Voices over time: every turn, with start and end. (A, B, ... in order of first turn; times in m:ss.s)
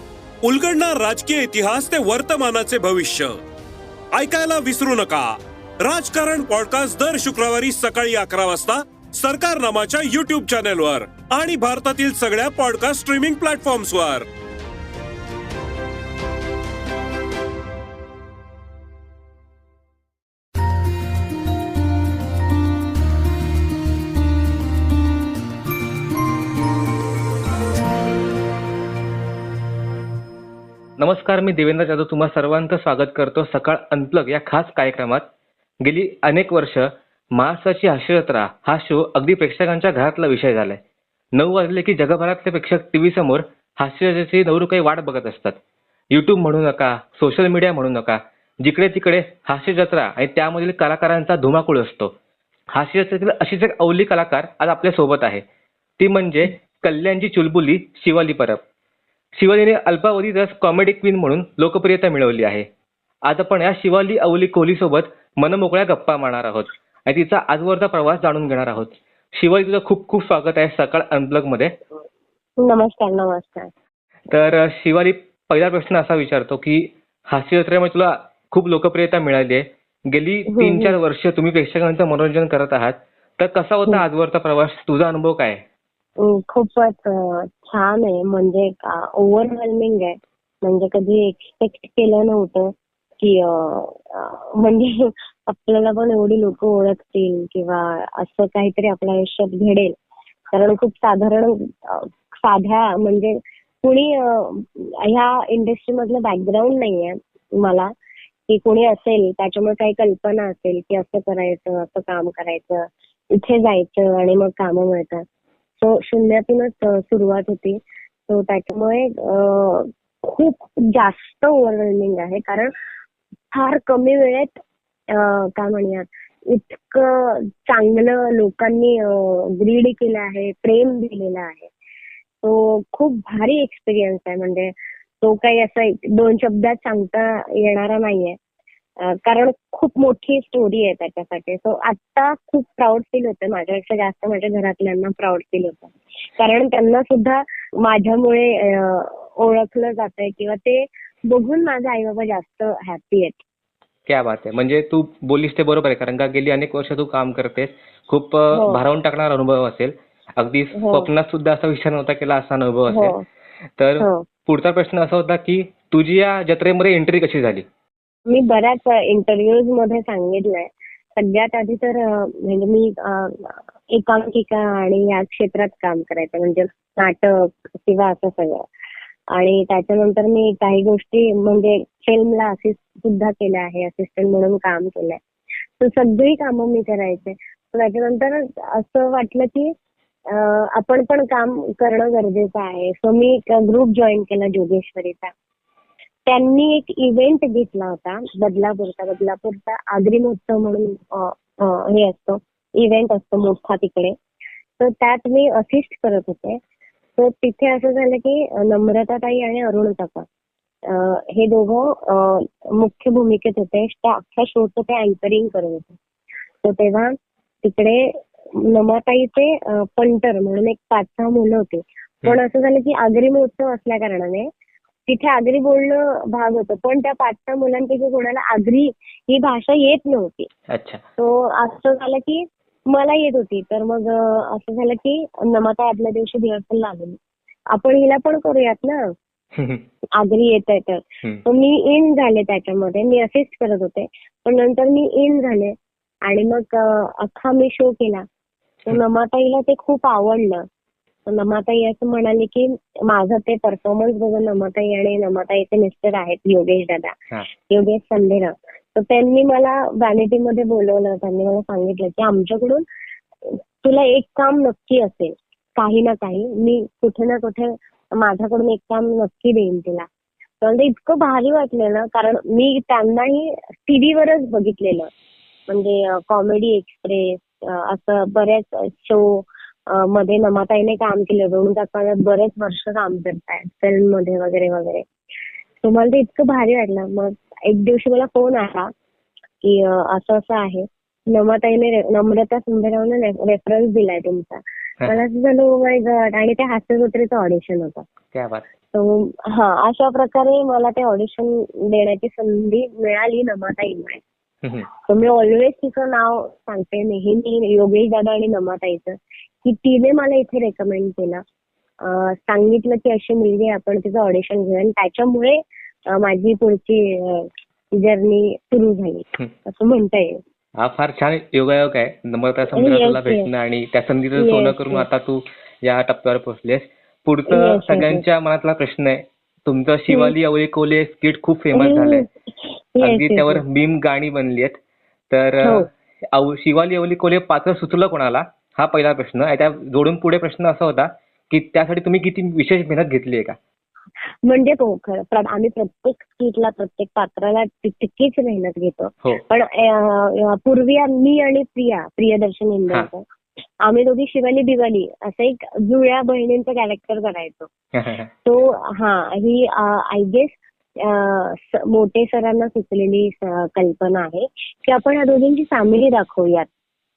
0:00.4-0:03.4 A
0:04.1-0:14.3 A
0:31.0-0:35.3 B
0:35.8-0:40.8 B
0:41.4-0:45.6 B
0:46.1-0:52.2 B
0:52.7-0:55.4 B
0:56.0-0:58.6 B
0:59.4-1:02.7 B
1:03.3-1:11.8 B
1:12.6-1:13.7 C
1:14.3-1:25.6 B
1:20.5-1:20.9 C
1:26.2-1:40.0 C
1:40.5-1:47.9 C
1:48.5-1:55.2 C
1:55.8-2:02.7 C
2:03.5-2:11.7 C
2:12.4-2:18.4 C
2:19.0-2:33.4 C
2:34.1-2:43.2 B
2:38.5-2:38.8 C
2:40.7-2:41.1 C
2:42.9-2:43.2 C
2:43.8-2:47.6 B
2:44.0-2:44.2 C
2:48.3-2:58.6 C
2:59.3-3:05.2 C
3:05.8-3:09.7 C
3:10.3-3:15.3 C
3:16.3-3:24.2 C
3:24.8-3:26.6 C
3:27.2-3:30.3 C
3:30.9-3:36.0 C
3:36.6-3:44.5 C
3:45.1-3:50.5 C
3:50.7-3:51.0 B
3:51.2-3:57.2 C
3:57.7-3:59.1 C
3:59.6-3:59.8 B
4:00.2-4:08.3 C
4:08.9-4:10.7 C
4:11.3-4:22.8 C
4:23.4-4:30.1 C
4:30.6-4:35.1 C
4:35.7-4:45.1 C
4:45.8-4:48.9 C
4:49.6-4:58.1 C
4:58.3-4:58.7 B
4:58.9-5:04.2 C
5:04.9-5:11.4 C
5:12.0-5:20.4 C
5:20.8-5:32.3 B
5:22.7-5:23.5 C
5:24.4-5:25.0 C
5:27.5-5:28.2 C
5:30.1-5:30.3 C
5:31.7-5:33.6 C
5:33.0-5:34.8 B
5:35.3-5:43.6 B
5:35.6-5:35.9 C
5:44.4-5:53.2 C
5:53.8-5:57.7 C
5:57.9-5:58.3 B
5:58.4-6:06.7 C